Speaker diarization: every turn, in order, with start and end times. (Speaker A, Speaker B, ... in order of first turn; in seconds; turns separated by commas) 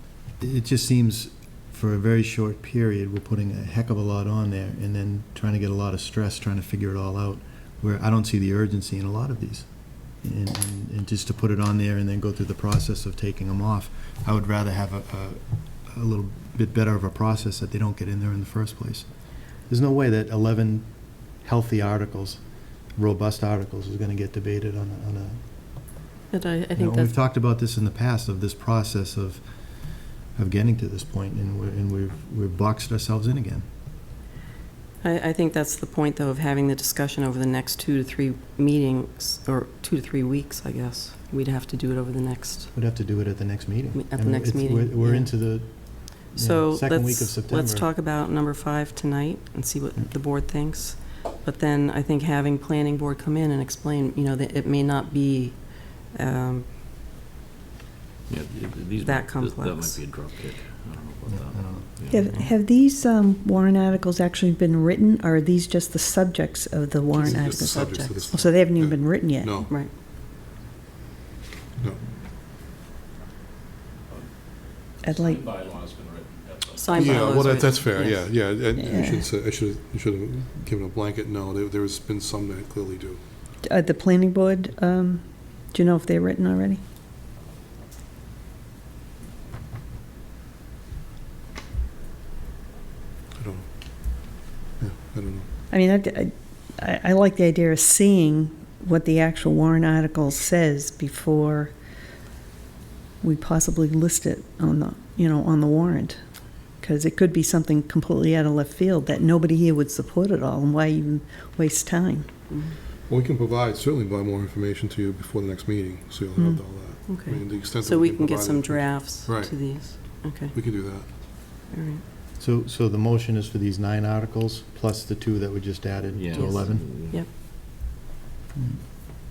Speaker A: 0.4-19.1, Speaker A: 19.7-22.4, Speaker A: 22.9-25.4, Speaker B: 26.3-27.1, Speaker A: 26.8-29.4, Speaker A: 30.3-33.7, Speaker B: 35.0-42.7, Speaker A: 42.8-47.9, Speaker B: 43.9-56.7, Speaker C: 58.3-62.4, Speaker B: 59.0-60.0, Speaker A: 61.3-62.4, Speaker D: 62.1-69.7, Speaker B: 67.1-68.4, Speaker E: 67.2-69.7, Speaker D: 75.0-75.7, Speaker F: 75.1-77.5, Speaker B: 76.8-78.2, Speaker E: 77.0-83.2, Speaker D: 78.8-79.3, Speaker D: 83.6-86.8, Speaker E: 93.3-95.5, Speaker D: 95.7-101.7, Speaker D: 103.2-112.4, Speaker B: 112.5-112.8, Speaker E: 113.1-121.1, Speaker B: 117.0-120.6, Speaker B: 121.7-122.0, Speaker A: 122.4-126.9, Speaker C: 126.1-127.2, Speaker B: 126.3-127.3